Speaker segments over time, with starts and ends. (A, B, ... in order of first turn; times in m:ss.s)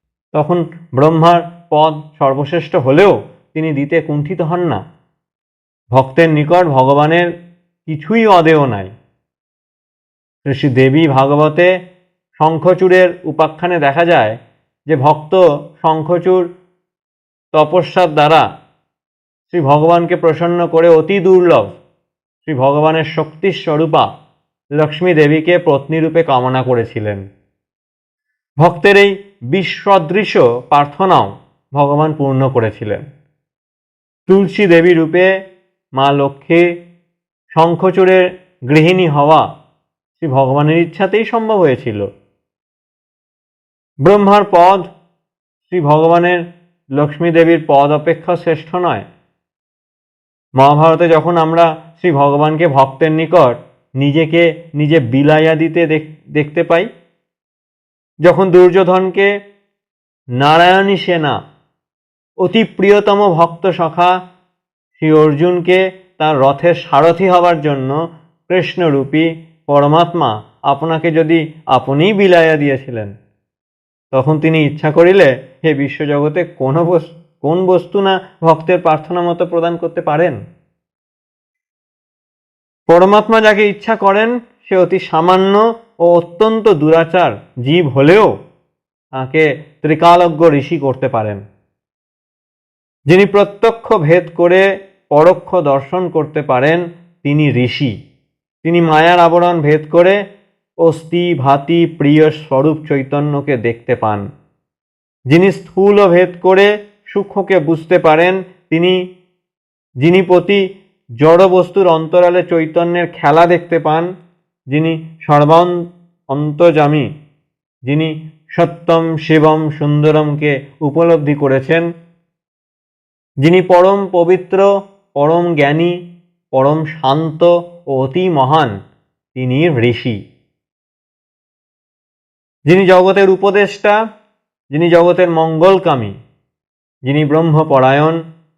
0:00.3-0:04.8 A
0:05.9-0:07.3 A
0:07.8-0:08.9 A
0:10.4-0:11.7 A
0:12.4-0:14.4 A
0:14.9-0:16.4 A
0:17.5-0:18.5 A
0:19.5-0:21.8 A
0:22.4-0:24.1 A
0:24.8-0:27.2 A
0:28.6-0:33.0 A
0:34.3-0:35.3 A
0:36.0-0:36.6 A
0:37.5-0:39.5 A
0:40.2-0:42.1 A
0:44.0-0:44.9 A
0:45.6-0:46.4 A
0:47.0-0:49.1 A
0:50.6-0:56.9 A
0:58.2-0:59.3 A
1:00.4-1:01.4 A
1:02.4-1:04.1 A
1:05.0-1:13.1 A
1:14.1-1:20.4 A
1:22.9-1:28.3 A
1:29.2-1:31.4 A
1:33.1-1:37.9 A
1:38.6-1:40.2 A
1:40.8-1:44.2 A
1:45.3-1:49.0 A
1:50.0-1:50.6 A
1:51.2-1:54.1 A
1:54.7-1:57.1 A
1:57.9-2:01.8 A
2:03.4-2:06.0 A
2:06.5-2:08.7 A
2:09.3-2:10.2 A
2:12.7-2:14.0 A
2:14.7-2:16.1 A
2:17.0-2:18.2 A